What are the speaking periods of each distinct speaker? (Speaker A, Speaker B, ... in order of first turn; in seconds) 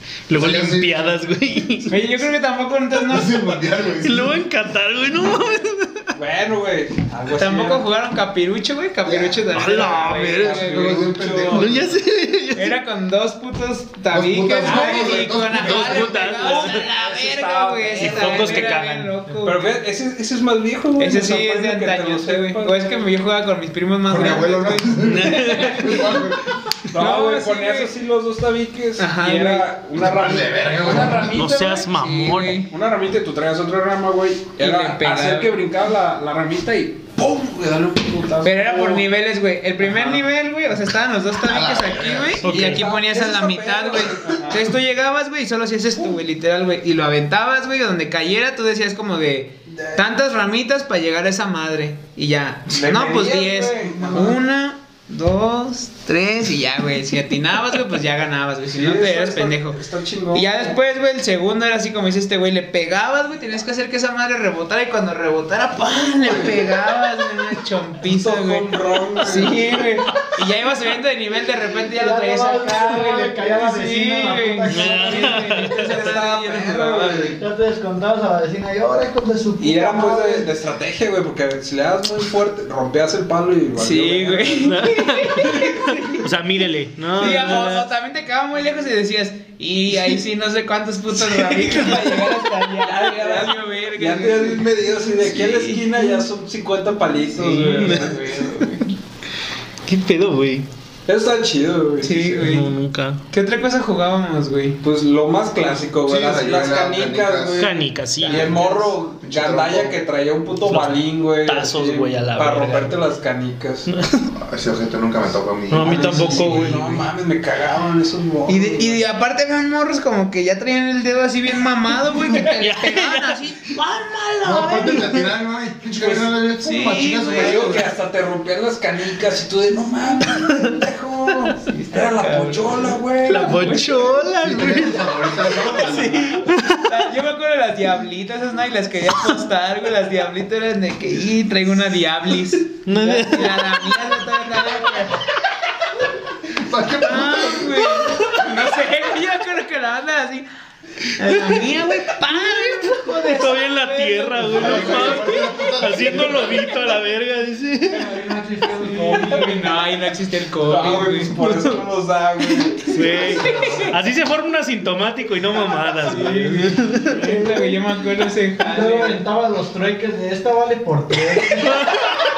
Speaker A: 0.3-2.0, 4.0-6.1, 9.5-10.7, 11.5-12.8, 15.5-16.8, 18.0-19.1, 25.0-26.1, 31.3-32.6, 42.5-42.9, 74.7-75.7, 84.7-87.9, 91.2-92.3, 97.8-98.2, 99.9-100.7, 102.4-103.2, 107.6-108.6, 110.7-113.0, 113.9-114.3, 115.7-117.0, 122.2-123.4, 133.2-136.8, 142.9-143.8, 151.4-151.7, 152.3-158.1, 162.9-167.3, 171.6-172.2
Speaker B: 0.4-1.1, 3.1-4.4, 9.1-9.4, 10.5-11.9, 14.1-16.2, 24.1-26.5, 30.0-31.5, 41.4-42.5, 106.0-107.7, 109.2-110.0, 114.4-116.4, 124.4-127.9, 134.4-136.3, 146.5-148.2, 154.5-156.7
Speaker C: 1.9-3.7, 7.4-11.2, 12.5-19.8, 21.0-26.1, 26.9-27.9, 29.0-29.7, 31.6-32.7, 34.6-35.6, 38.4-59.8, 60.3-77.4, 83.8-86.3, 87.2-95.8, 97.3-98.9, 102.0-102.7, 103.3-104.8, 108.2-108.9, 116.1-116.7, 118.5-125.2, 126.6-127.9, 131.7-134.1, 135.8-145.2, 147.0-150.5, 151.1-155.4, 158.7-161.3, 163.0-164.0, 166.0-169.2
Speaker D: 6.2-7.9, 10.4-11.8, 14.6-15.3, 16.3-18.8, 19.4-22.8, 26.9-39.1, 39.9-40.2, 42.4-44.7, 49.7-50.0, 52.7-54.4, 58.7-60.8, 66.2-66.6, 68.0-69.9, 75.7-77.4, 79.6-84.7, 85.4-85.7, 92.8-98.4, 101.1-102.5, 104.8-113.9, 115.8-119.0, 126.0-126.3, 127.3-134.0, 159.2-159.5, 160.6-163.4
Speaker E: 71.9-75.7, 77.4-80.5, 157.9-159.6, 166.1-167.8, 168.6-172.2